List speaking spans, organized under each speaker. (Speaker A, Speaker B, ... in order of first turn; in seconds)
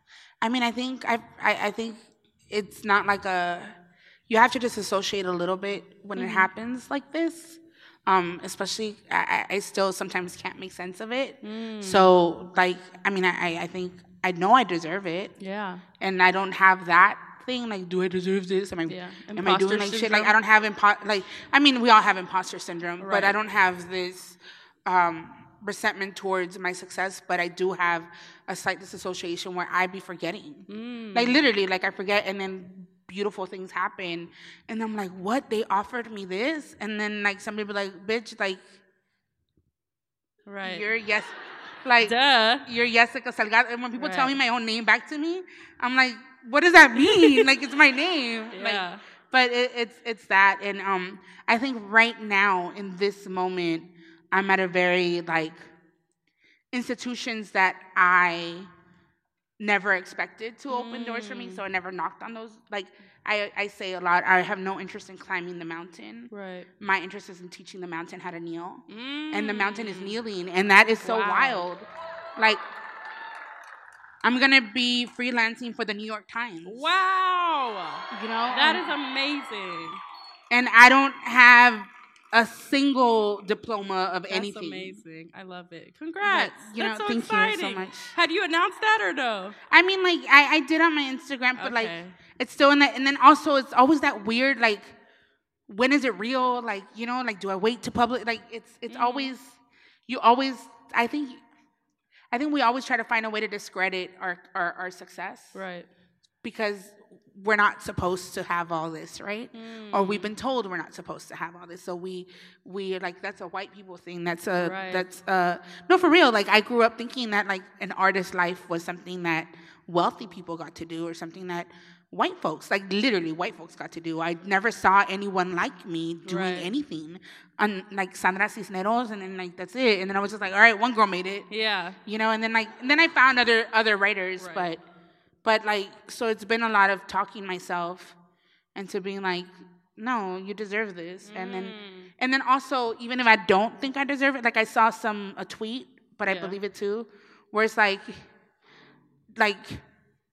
Speaker A: 0.4-3.8, 4.3-15.3, 16.0-38.7, 40.6-55.7, 56.7-58.7, 59.6-72.6, 74.2-76.8, 78.1-78.9, 80.5-85.0, 86.2-88.1, 89.7-94.9, 95.7-99.5, 100.1-101.4, 102.3-105.6, 106.4-131.5, 132.1-134.8, 135.4-138.2, 138.8-148.2, 149.4-149.8
Speaker B: 6.2-6.5, 11.4-12.1, 15.4-15.8, 18.9-20.4, 23.0-23.4, 30.7-31.4, 40.5-40.9, 42.0-42.7, 44.0-44.4, 47.1-47.5, 48.5-49.0, 60.7-61.6, 66.3-66.7, 68.9-70.2, 71.0-71.7, 76.7-80.0, 84.3-89.6, 91.6-92.2, 98.9-99.3, 105.5-105.9, 109.5-110.3, 114.5-115.0, 126.3-126.7, 131.5-132.0, 134.4-134.7, 141.2-142.1, 146.3-146.6